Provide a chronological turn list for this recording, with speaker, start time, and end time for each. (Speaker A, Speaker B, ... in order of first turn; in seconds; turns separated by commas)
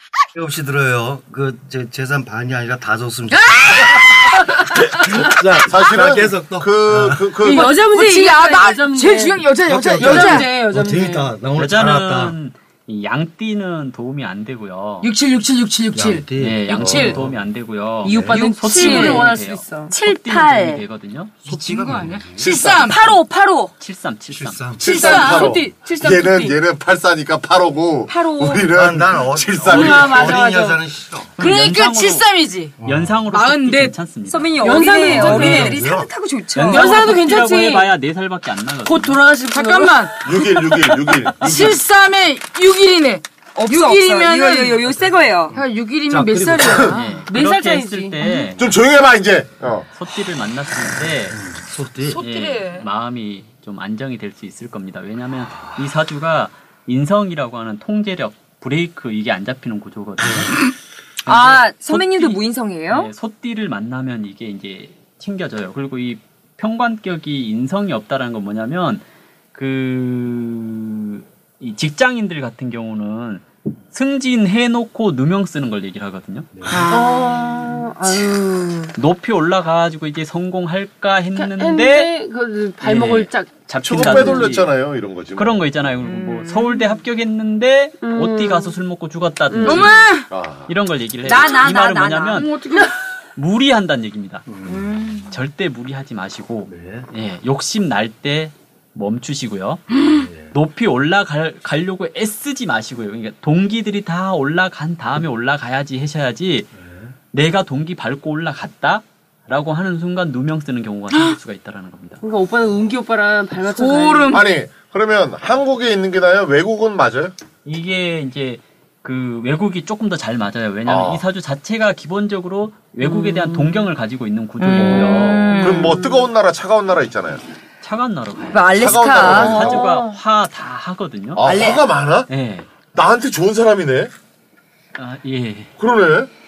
Speaker A: 0.3-7.3, Speaker B: 3.3-4.6, Speaker C: 5.7-7.8, Speaker D: 7.4-11.3, Speaker B: 7.5-10.5, Speaker A: 9.6-12.3, Speaker E: 11.6-15.1, Speaker B: 15.0-17.2, Speaker A: 15.9-17.4, Speaker E: 16.4-21.3, Speaker A: 18.0-18.4, Speaker D: 18.1-19.9, Speaker F: 18.1-19.3, Speaker F: 19.9-20.8, Speaker A: 21.4-22.5, Speaker B: 21.4-23.0, Speaker C: 22.4-23.1, Speaker F: 22.7-23.7, Speaker E: 23.8-24.6, Speaker A: 24.3-24.9, Speaker B: 24.8-25.5, Speaker C: 24.8-30.4, Speaker D: 24.9-26.6, Speaker F: 28.1-28.7, Speaker A: 28.7-31.3, Speaker D: 29.7-30.8, Speaker F: 30.1-30.6, Speaker E: 31.4-32.2, Speaker B: 31.4-32.8, Speaker A: 32.8-33.2, Speaker E: 32.8-35.7, Speaker B: 33.3-34.0, Speaker F: 34.3-37.1, Speaker D: 34.6-35.8, Speaker B: 34.6-35.8, Speaker A: 35.2-36.1, Speaker E: 36.5-39.2, Speaker D: 36.6-37.9, Speaker D: 38.9-41.0, Speaker B: 39.5-40.4, Speaker C: 40.2-41.8, Speaker B: 41.3-44.9, Speaker F: 43.5-45.6, Speaker A: 45.5-46.9, Speaker B: 45.5-47.2, Speaker E: 46.9-48.7, Speaker D: 47.3-48.2, Speaker C: 48.6-49.9, Speaker E: 49.9-51.4, Speaker A: 51.3-52.2, Speaker B: 52.1-52.9, Speaker E: 52.2-60.7, Speaker A: 55.5-55.8, Speaker E: 61.2-69.0, Speaker F: 61.2-63.1, Speaker E: 69.5-76.5, Speaker A: 76.5-76.9, Speaker B: 76.7-77.3, Speaker D: 76.8-78.9, Speaker E: 79.0-82.1, Speaker D: 81.3-84.5, Speaker E: 82.8-84.7, Speaker C: 83.8-85.7, Speaker E: 85.3-90.0, Speaker B: 86.1-86.8, Speaker D: 88.0-88.8, Speaker D: 89.5-90.0, Speaker B: 89.6-90.3, Speaker C: 90.3-90.7, Speaker E: 90.7-92.5, Speaker F: 91.2-92.5, Speaker B: 92.3-92.9, Speaker E: 93.3-94.5, Speaker A: 94.5-95.3, Speaker F: 94.7-95.1, Speaker E: 95.3-99.8, Speaker A: 96.7-97.1, Speaker B: 99.9-100.2, Speaker A: 100.0-100.5, Speaker E: 100.5-106.7, Speaker A: 106.7-107.1, Speaker E: 107.3-112.2, Speaker D: 112.2-114.4, Speaker B: 113.7-114.5, Speaker C: 114.3-117.3, Speaker E: 117.6-125.8, Speaker C: 120.8-121.2, Speaker F: 123.0-123.8, Speaker F: 124.6-126.3, Speaker C: 125.5-127.4, Speaker E: 127.8-131.4, Speaker F: 128.5-129.8, Speaker C: 128.7-129.8, Speaker D: 129.2-130.1, Speaker C: 131.3-132.3, Speaker F: 131.4-131.9, Speaker E: 132.3-132.7, Speaker C: 132.9-134.1, Speaker E: 134.9-135.7, Speaker C: 135.8-136.3